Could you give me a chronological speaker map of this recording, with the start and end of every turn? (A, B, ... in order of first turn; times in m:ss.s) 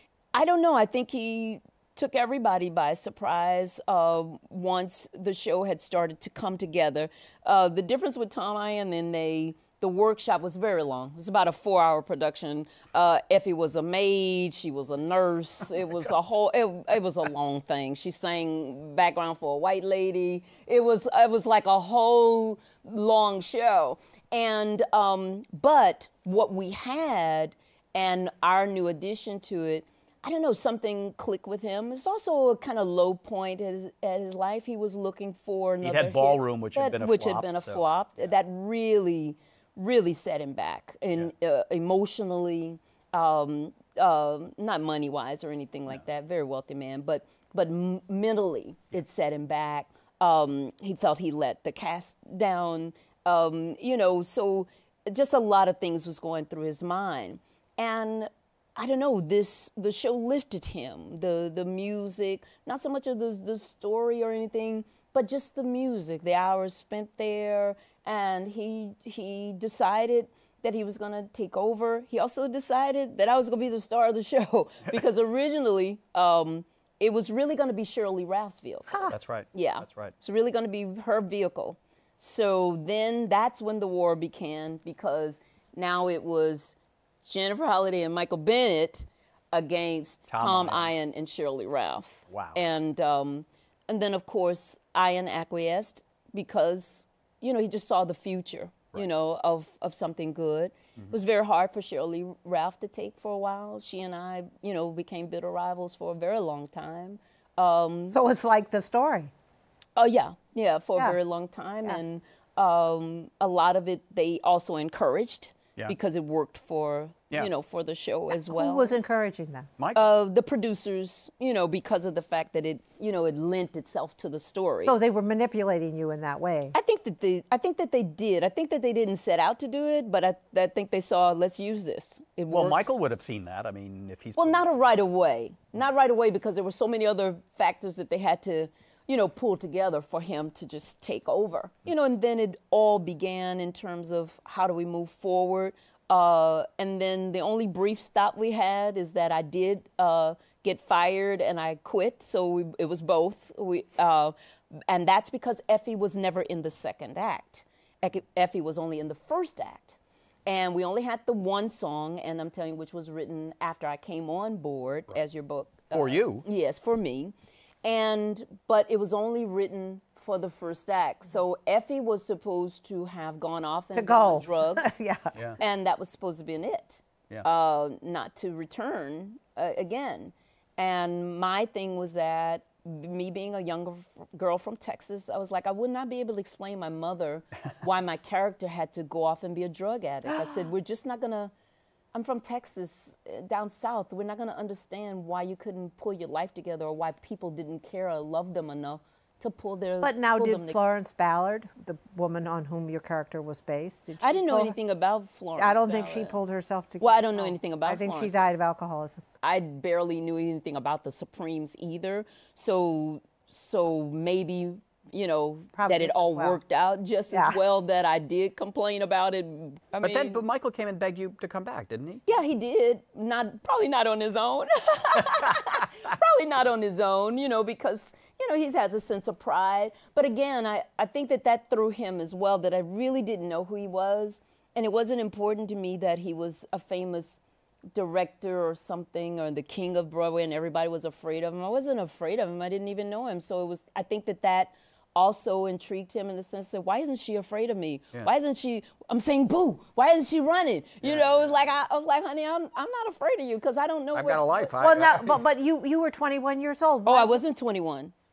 0:00.3-1:48.2 A
0:35.8-0:38.3 B
1:19.0-1:20.2 B
1:30.3-1:31.0 B
1:32.3-1:32.6 B
1:48.1-1:49.3 C
1:50.0-1:59.0 A
1:58.3-1:59.7 C
1:59.8-2:00.1 B
2:00.0-2:05.0 A
2:04.8-2:06.8 C
2:06.8-2:13.0 A
2:12.5-2:14.8 B
2:14.4-2:34.3 A
2:34.9-2:47.3 A
2:45.9-2:46.5 B
2:47.8-2:55.0 A
2:53.9-2:55.4 C
2:55.6-3:11.5 A
3:10.3-3:10.6 C
3:12.1-3:20.8 A
3:20.0-3:24.8 C
3:24.2-3:26.4 A
3:25.6-3:29.2 C
3:27.0-3:28.4 A
3:29.4-3:40.4 A
3:35.8-3:36.6 C
3:37.3-3:37.6 C
3:40.0-3:42.2 B
3:42.3-3:57.4 A
3:57.9-4:14.8 A
4:11.0-4:11.6 B
4:14.1-4:15.4 B
4:14.8-4:17.4 C
4:17.1-4:18.1 A